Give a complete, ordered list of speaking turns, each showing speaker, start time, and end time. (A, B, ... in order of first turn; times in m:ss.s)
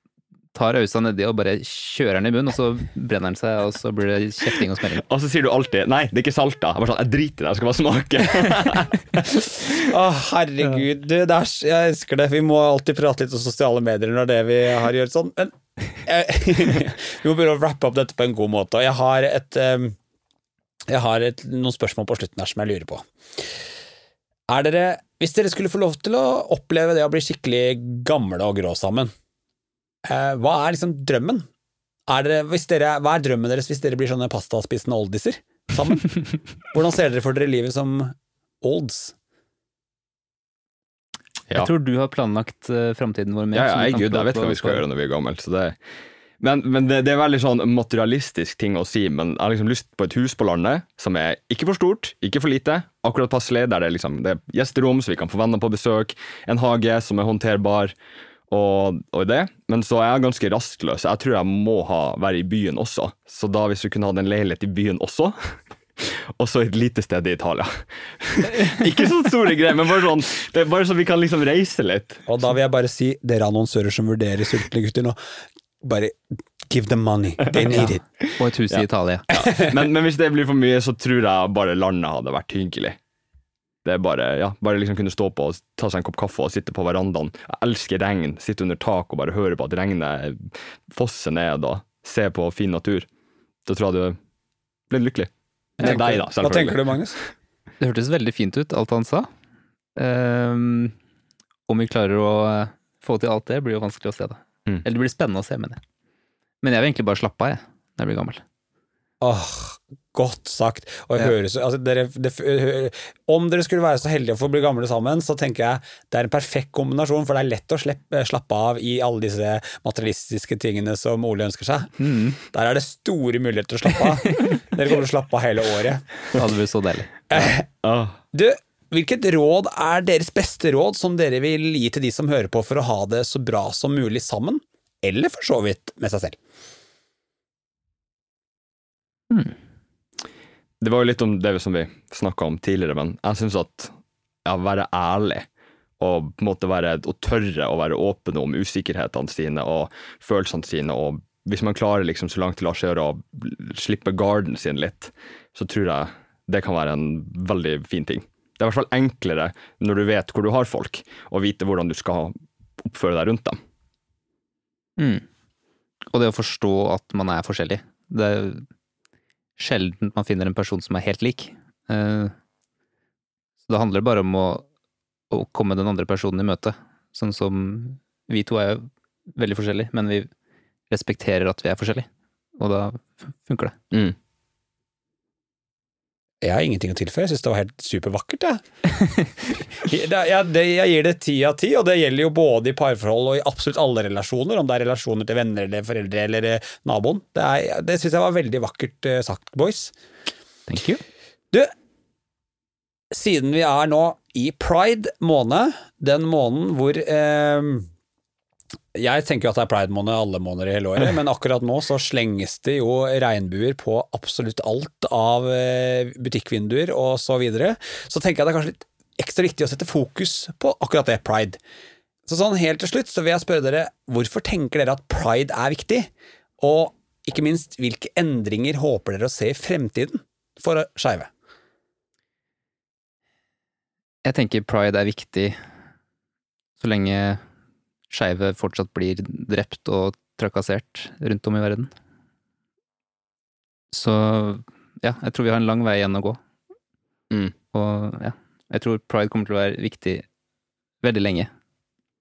0:00.5-0:05.0 A
0:05.0-0:09.7 B
0:09.8-0:20.0 C
0:20.9-0:23.1 C
0:24.5-0:29.1 C
0:30.0-0:31.5 C
0:32.1-0:39.2 C
0:41.5-0:44.8 A
0:43.5-0:45.8 B
0:46.4-0:57.9 B
0:58.5-1:12.2 B
1:12.3-1:15.2 C
1:15.8-1:18.0 C
1:17.7-1:19.3 A
1:18.7-1:23.0 B
1:19.4-1:19.6 C
1:23.8-1:33.1 B
1:33.7-1:34.2 B
1:34.9-1:36.8 B
1:35.8-1:37.2 C
1:37.8-1:39.3 A
1:40.0-1:41.0 A
1:41.7-1:45.8 A
1:46.6-1:48.4 A
1:49.2-2:06.0 C
2:02.0-2:02.4 A
2:06.4-2:07.2 A
2:07.3-2:07.7 C
2:07.8-2:08.2 B
2:08.3-2:16.4 C
2:20.8-2:23.9 B
2:24.4-2:25.5 B
2:26.0-2:43.6 B
2:45.0-2:45.2 A
2:46.1-2:48.6 A
2:49.6-2:52.3 A
2:53.7-2:54.7 A
2:55.3-3:00.3 A
3:00.9-3:02.1 A
3:02.6-3:03.8 A
3:06.4-3:08.6 C
3:09.8-3:19.9 C
3:20.7-3:21.0 A
3:23.1-3:27.9 C
3:29.0-3:41.6 C
3:42.3-3:51.3 C
3:54.2-3:55.6 A
3:56.8-3:57.4 A
3:58.1-4:01.9 A
4:03.9-4:06.4 A
4:07.7-4:10.2 A
4:11.0-4:11.5 A